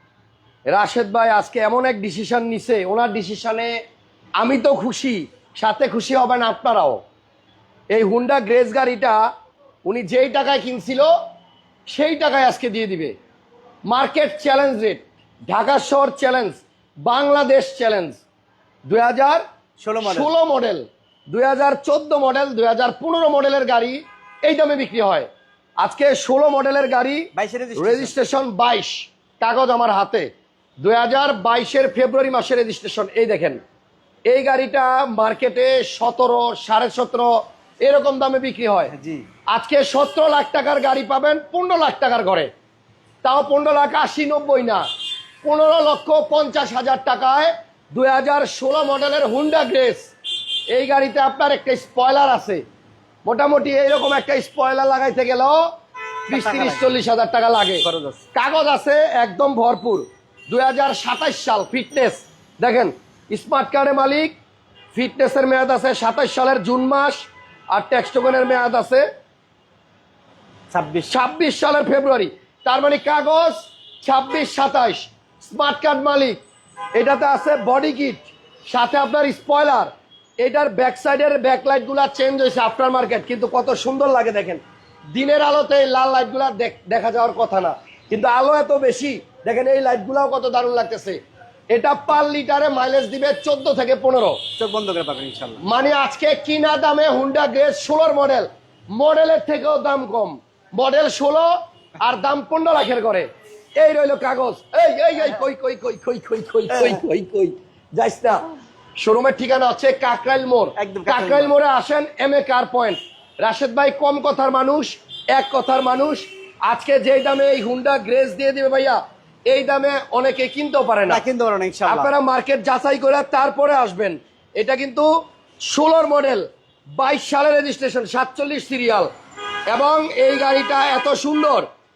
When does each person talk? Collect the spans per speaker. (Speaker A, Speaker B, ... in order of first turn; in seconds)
Speaker A: 0.7-3.7, 4.4-7.0, 7.9-9.2, 9.8-11.1, 11.9-13.1, 13.9-18.2, 18.9-19.4, 20.0-25.3, 25.8-30.3, 30.8-33.6, 34.3-37.3, 37.8-38.9, 39.5-42.5, 43.2-44.8, 45.4-50.1, 50.7-52.6, 53.2-55.6, 56.3-64.3, 64.9-69.0, 71.1-76.4, 76.9-84.6, 85.1-91.2, 91.7-94.4, 95.6-108.4, 109.0-121.2, 121.8-125.1, 125.6-126.4, 127.0-129.1, 129.7-131.7
Speaker B: 19.8-20.3, 27.3-28.1, 38.9-39.2, 56.3-56.9, 57.8-58.2, 70.7-71.1, 94.6-95.6, 105.2-105.5, 106.7-107.0, 110.8-111.5, 121.1-122.1